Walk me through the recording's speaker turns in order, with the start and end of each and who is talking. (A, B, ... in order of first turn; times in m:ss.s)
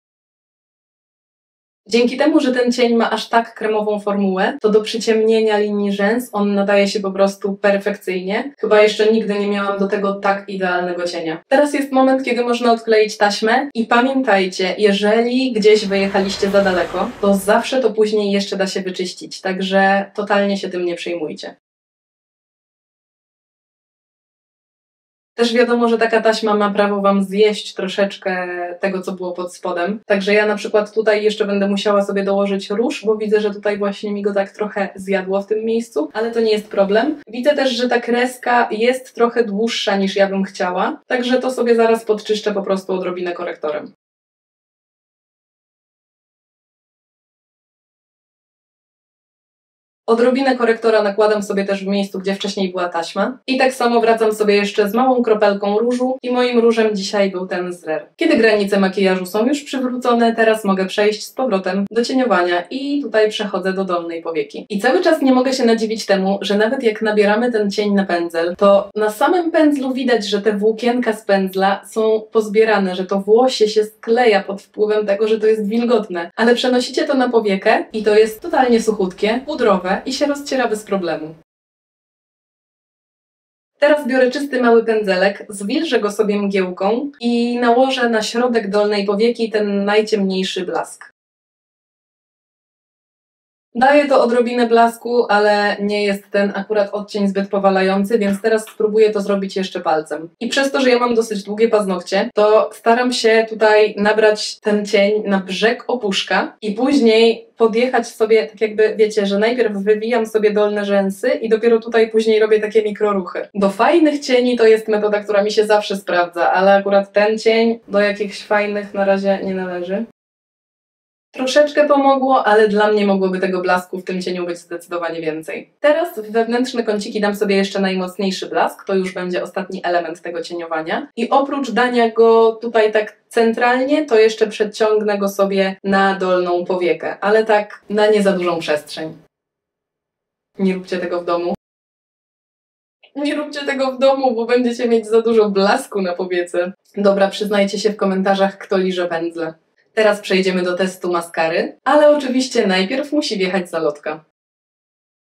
0:01.8-0:21.5 A
0:25.4-0:43.9 A
0:50.1-1:21.3 A
1:23.8-1:31.1 A
1:33.7-2:00.0 A
2:01.3-2:19.2 A
2:20.6-2:21.6 A
2:23.1-2:34.2 A